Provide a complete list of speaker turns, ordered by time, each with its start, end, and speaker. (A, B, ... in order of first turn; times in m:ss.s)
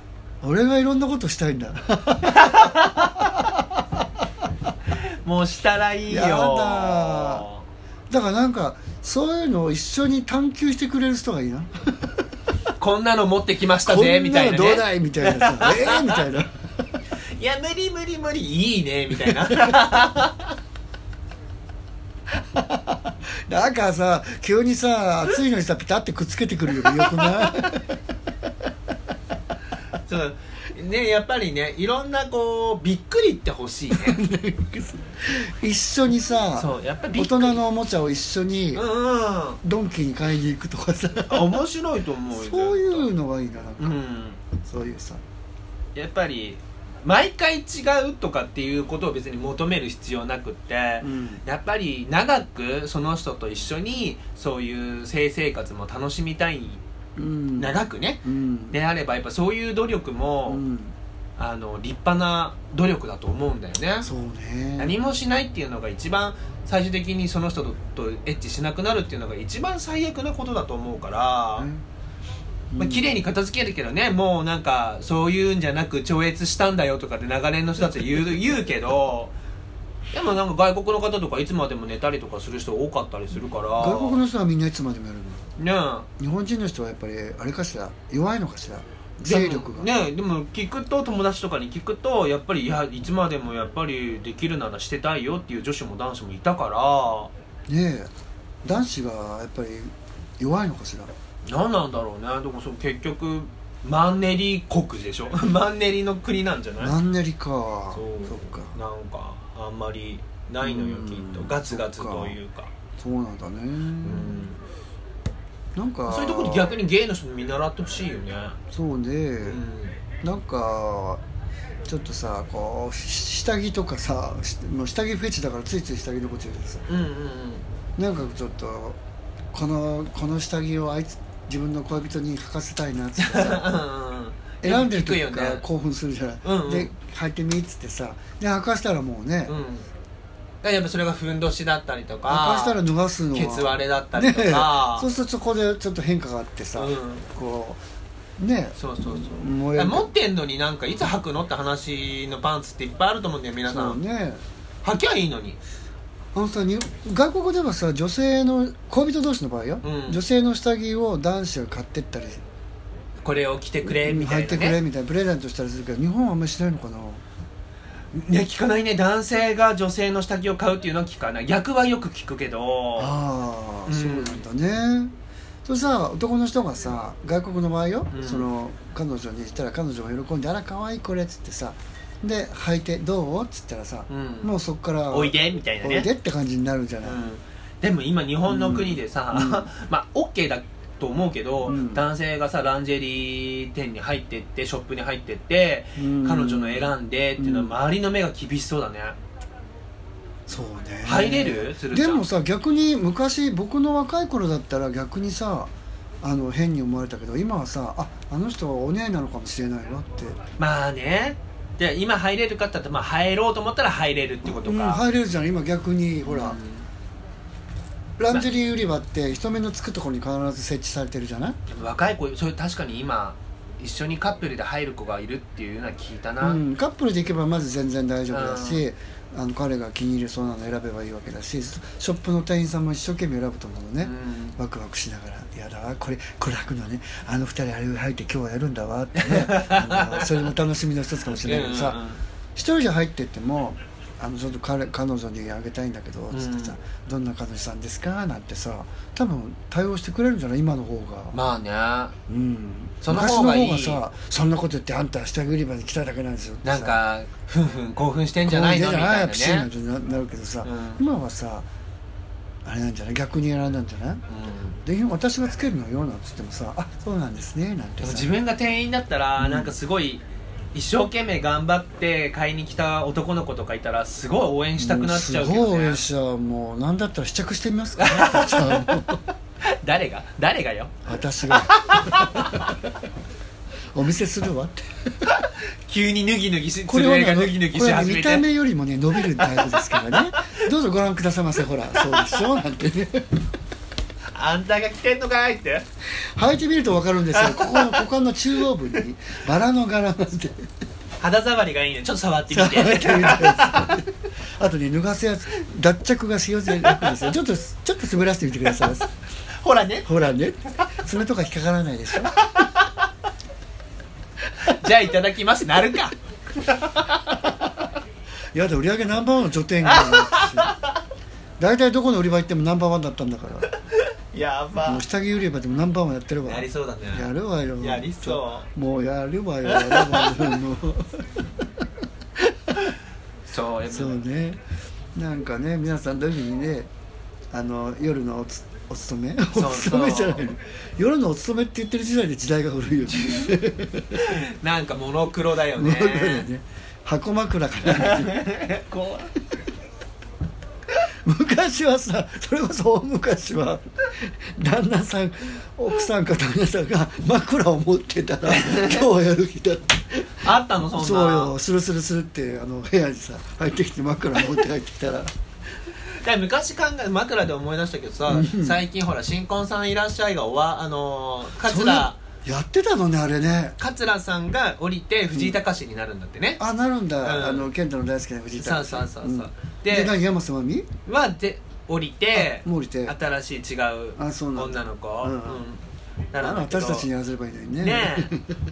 0:00.4-0:03.6 A
0:02.2-0:03.3 B
0:05.0-0:07.6 B
0:06.1-0:07.4 A
0:08.1-0:11.9 A
0:12.8-0:16.2 B
0:13.8-0:16.6 A
0:17.4-0:20.5 B
0:19.3-0:19.8 A
0:22.3-0:27.9 A
0:30.0-0:34.2 B
0:33.9-0:38.8 A
0:36.5-0:37.6 B
0:38.7-0:39.6 B
0:39.6-0:41.6 A
0:41.3-0:43.1 B
0:42.3-0:44.0 A
0:43.8-0:44.4 B
0:44.6-0:45.2 A
0:45.9-0:56.8 B
0:51.0-0:51.4 A
0:57.2-0:57.7 A
0:57.6-1:00.6 B
0:58.2-0:58.8 A
1:00.5-1:00.9 A
1:01.4-1:04.1 B
1:04.0-1:04.9 A
1:04.8-1:11.7 B
1:11.6-1:11.8 A
1:12.7-1:13.1 A
1:12.8-1:19.3 B
1:20.1-1:24.2 B
1:23.8-1:25.5 A
1:25.6-1:26.1 B
1:26.2-1:29.9 A
1:29.2-1:37.3 B
1:37.7-1:38.1 A
1:38.6-1:41.1 A
1:41.4-1:47.0 B
1:46.8-1:48.7 A
1:47.9-1:52.7 B
1:50.6-1:52.4 A
1:53.0-1:54.4 A
1:54.0-1:54.6 B
1:55.7-1:56.7 A
1:56.1-1:58.6 B
1:58.7-1:59.6 A
1:59.4-2:00.0 B
2:00.2-2:01.2 A
2:01.8-2:06.8 A
2:06.9-2:07.6 B
2:08.0-2:09.0 A
2:09.5-2:13.7 A
2:13.2-2:15.6 B
2:14.6-2:19.5 A
2:16.4-2:16.9 B
2:19.5-2:19.8 B
2:20.6-2:22.8 B
2:22.3-2:27.8 A
2:23.3-2:25.1 B
2:26.8-2:27.2 B
2:28.4-2:30.1 A
2:28.8-2:34.0 B
2:33.7-2:34.4 A
2:34.8-2:35.6 B
2:36.3-2:42.4 A
2:39.8-2:40.2 B
2:43.2-2:44.8 B
2:43.8-2:47.2 A
2:48.1-2:53.1 B
2:53.0-2:55.1 A
2:53.9-2:54.4 B
2:55.6-3:07.2 A
2:58.1-2:58.5 B
3:04.1-3:04.5 B
3:05.1-3:06.1 B
3:07.0-3:19.2 B
3:08.5-3:09.7 A
3:11.6-3:12.0 A
3:16.0-3:17.7 A
3:20.5-3:25.7 A
3:21.0-3:22.2 B
3:26.2-3:30.4 A
3:30.6-3:35.0 B
3:34.4-3:36.6 A
3:36.2-3:36.8 B
3:38.2-3:41.6 A
3:41.7-3:46.6 B
3:46.4-4:02.0 A
3:48.3-3:48.8 B
3:54.0-3:54.6 B
3:59.1-4:00.5 B
4:01.2-4:02.2 B
4:02.6-4:11.4 A
4:06.3-4:06.8 B
4:11.3-4:12.2 B
4:12.3-4:17.0 A
4:13.0-4:14.0 B
4:16.6-4:19.7 B
4:18.4-4:21.7 A
4:20.6-4:21.0 B
4:22.6-4:24.2 A
4:24.3-4:24.8 B
4:24.8-4:28.3 A
4:28.0-4:36.0 B
4:29.4-4:29.7 A
4:34.8-4:39.2 A
4:38.0-4:39.0 B
4:39.6-4:40.9 B
4:41.0-4:42.7 A
4:41.5-4:42.8 B
4:43.9-4:45.3 A
4:45.3-4:48.4 B
4:46.9-4:53.4 A
4:49.3-4:50.6 B
4:52.0-4:52.4 B
4:54.3-4:55.8 B
4:56.2-5:00.7 A
4:57.3-4:58.0 B
5:01.2-5:04.0 B
5:02.5-5:09.1 A
5:06.7-5:07.2 B
5:09.6-5:10.1 B
5:10.0-5:12.4 A
5:12.2-5:13.1 B
5:14.6-5:17.5 B
5:18.5-5:20.7 A
5:19.8-5:21.0 B
5:21.6-5:23.7 A
5:23.7-5:25.0 B
5:24.8-5:31.3 A
5:26.4-5:27.3 B
5:27.8-5:28.7 B
5:29.7-5:30.5 B
5:32.4-5:32.8 A
5:33.5-5:34.2 B
5:33.9-5:34.6 A
5:35.1-5:36.9 A
5:37.5-5:44.4 A
5:39.5-5:40.5 B
5:43.1-5:43.6 B
5:44.1-5:46.5 B
5:45.7-5:48.5 A
5:47.9-5:49.3 B
5:51.2-6:05.3 A
5:58.5-5:59.0 B
6:00.4-6:01.5 B
6:06.2-6:12.2 B
6:08.3-6:08.8 A
6:11.6-6:13.8 A
6:13.8-6:16.6 B
6:16.6-6:20.9 A
6:17.2-6:17.7 B
6:18.6-6:20.1 B
6:21.0-6:27.1 B
6:22.3-6:23.1 A
6:24.2-6:25.6 A
6:26.4-6:28.6 A
6:27.8-6:28.3 B